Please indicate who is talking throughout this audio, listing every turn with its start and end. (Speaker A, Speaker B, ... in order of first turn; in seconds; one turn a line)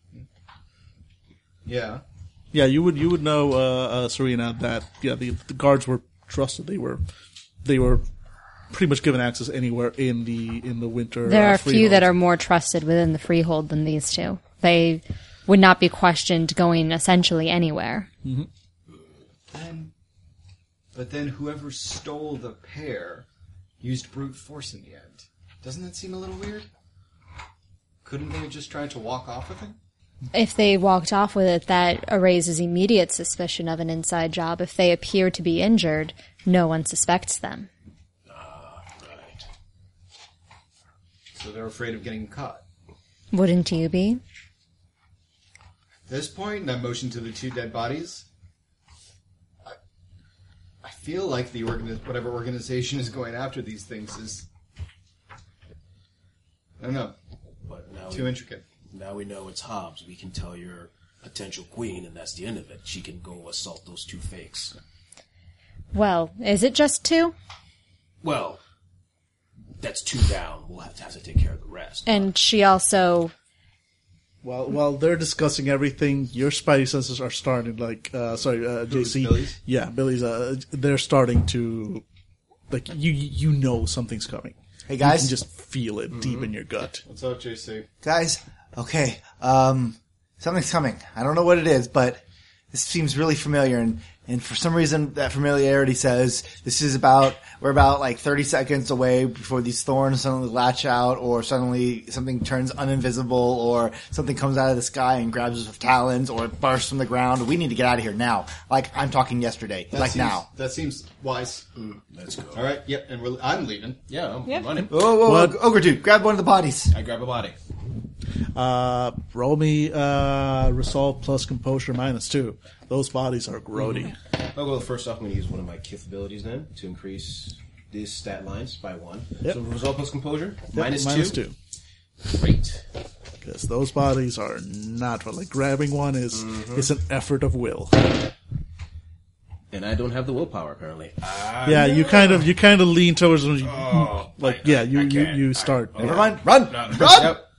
Speaker A: 1.6-2.0
Speaker B: 2.5-7.0
Speaker B: 7.6-8.0
Speaker B: 8.7-12.1
Speaker C: 11.2-18.1
Speaker A: 19.5-19.9
Speaker A: 20.9-23.2
Speaker A: 23.8-26.7
Speaker A: 28.0-29.8
Speaker C: 30.3-37.7
Speaker D: 38.3-39.4
Speaker A: 41.4-42.6
Speaker C: 43.3-44.2
Speaker A: 46.1-48.2
Speaker A: 50.8-54.5
Speaker A: 56.8-57.1
Speaker D: 57.6-58.4
Speaker A: 58.1-58.6
Speaker D: 58.9-64.7
Speaker C: 65.9-67.3
Speaker D: 68.2-68.6
Speaker D: 69.8-72.3
Speaker C: 72.0-73.3
Speaker B: 74.4-82.0
Speaker A: 78.9-79.6
Speaker B: 82.7-87.0
Speaker E: 84.9-85.3
Speaker D: 86.1-86.5
Speaker A: 87.0-87.9
Speaker E: 88.0-110.5
Speaker A: 109.9-111.6
Speaker D: 111.8-112.7
Speaker A: 112.5-114.0
Speaker D: 114.1-115.0
Speaker E: 114.9-116.9
Speaker B: 115.0-115.6
Speaker D: 116.9-117.6
Speaker B: 118.5-124.1
Speaker D: 123.8-131.4
Speaker B: 130.7-131.5
Speaker D: 132.2-132.8
Speaker B: 133.4-138.1
Speaker D: 136.4-136.8
Speaker D: 139.7-142.4
Speaker B: 141.6-146.3
Speaker D: 143.6-147.4
Speaker E: 146.0-147.4